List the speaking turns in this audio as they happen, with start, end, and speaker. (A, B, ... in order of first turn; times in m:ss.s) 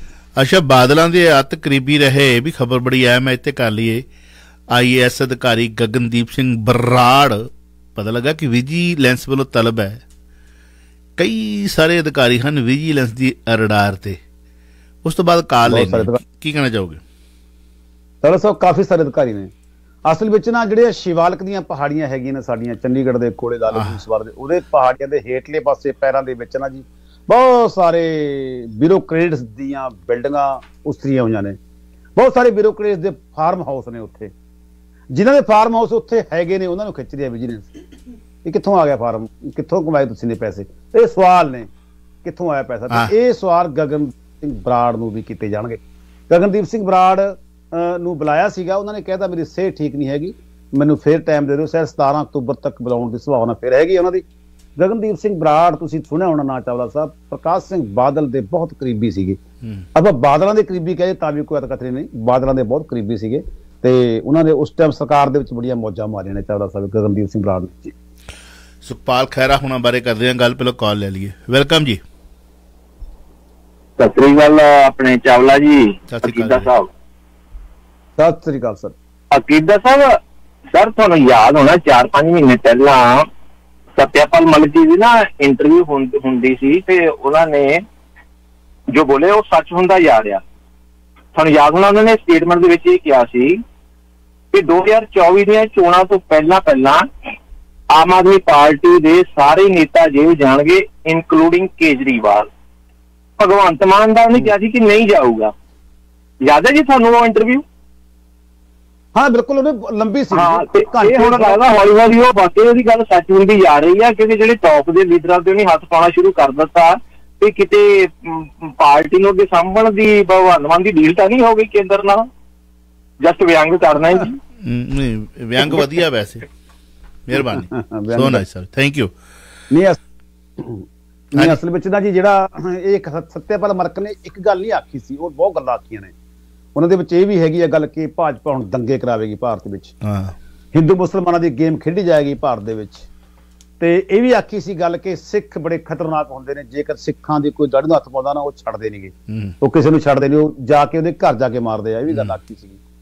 0:00.4-0:04.0 A
0:04.7-0:10.0 A
0:11.2-0:14.2 A
0:15.0-0:17.0 A
0:15.7-0:16.2 B
0:18.2-0:19.5 B
0:20.0-0:31.6 B
0:23.7-0:24.0 A
0:32.2-0:34.3 B
0:35.1-0:37.7 B
0:38.4-0:41.7 B
0:42.2-0:54.2 B
0:54.8-0:59.4 B
0:59.9-1:07.9 B
1:08.8-1:12.0 A
1:14.0-1:16.9 C
1:16.1-1:16.7 A
1:18.2-1:18.9 B
1:19.3-1:20.2 C
1:20.7-1:23.3 C
1:24.0-1:27.8 C
1:28.9-1:30.4 C
1:31.3-1:33.6 C
1:34.5-1:37.1 C
1:37.9-1:42.5 C
1:43.4-1:45.5 C
1:46.4-1:47.6 C
1:49.1-1:51.6 B
1:50.3-2:02.3 C
2:03.2-2:04.4 C
2:04.6-2:06.5 A
2:07.3-2:09.1 A
2:07.4-2:08.4 B
2:09.7-2:10.0 B
2:10.6-2:16.1 B
2:16.7-2:19.9 B
2:20.0-2:20.3 A
2:20.7-2:23.0 B
2:23.8-2:32.8 B
2:29.3-2:29.5 A
2:32.1-2:32.3 A